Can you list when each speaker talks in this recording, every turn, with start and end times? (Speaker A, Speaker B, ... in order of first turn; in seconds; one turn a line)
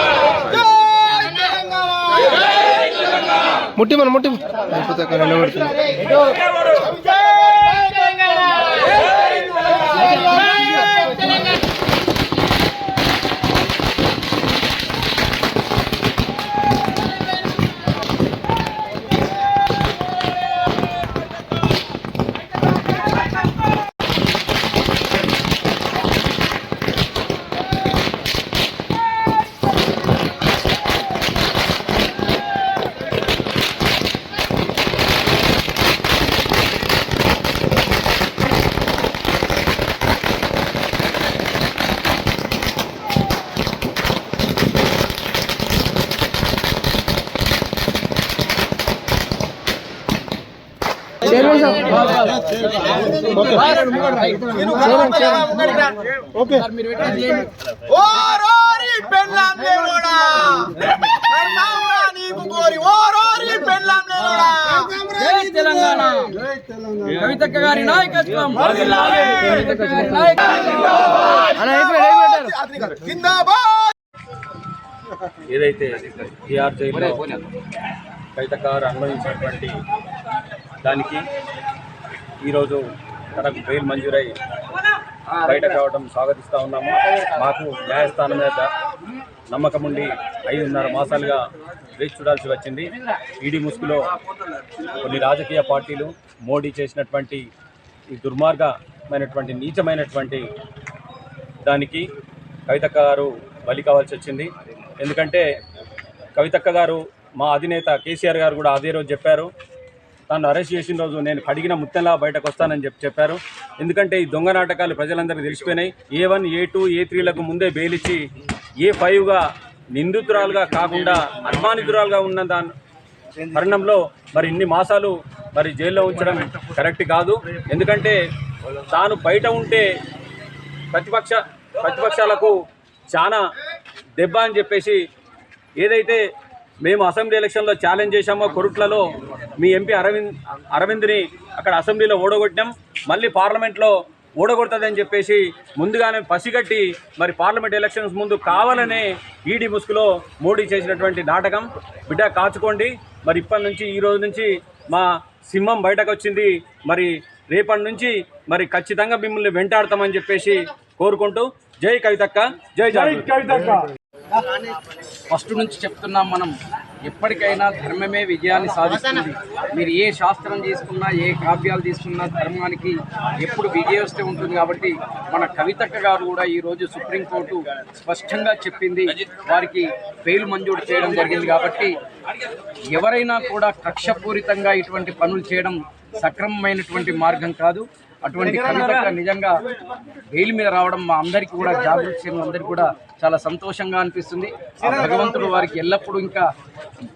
Speaker A: 1.2-2.3
Speaker B: 3.8-5.8
Speaker A: 7.4-8.2
Speaker C: 51.2-55.3
Speaker A: 53.0-53.4
Speaker A: 54.5-56.0
Speaker C: 56.4-57.5
Speaker A: 57.9-65.7
Speaker C: 64.9-66.4
Speaker C: 67.0-71.0
Speaker A: 71.5-73.9
Speaker D: 75.4-77.2
Speaker C: 76.9-77.4
Speaker D: 78.4-79.8
Speaker D: 80.8-81.2
Speaker D: 82.4-82.8
Speaker D: 83.3-84.4
Speaker D: 85.3-88.7
Speaker D: 89.5-91.4
Speaker D: 91.9-94.0
Speaker D: 95.0-97.5
Speaker D: 98.2-100.5
Speaker D: 101.7-102.1
Speaker D: 102.7-105.5
Speaker D: 106.4-109.5
Speaker D: 110.3-118.3
Speaker D: 118.8-119.4
Speaker D: 120.0-122.7
Speaker D: 123.4-129.9
Speaker D: 130.9-132.6
Speaker D: 133.1-133.4
Speaker D: 134.2-135.0
Speaker D: 135.8-136.2
Speaker D: 136.8-163.9
Speaker C: 165.3-166.6
Speaker C: 167.1-181.9
Speaker C: 182.9-189.6
Speaker C: 190.2-196.5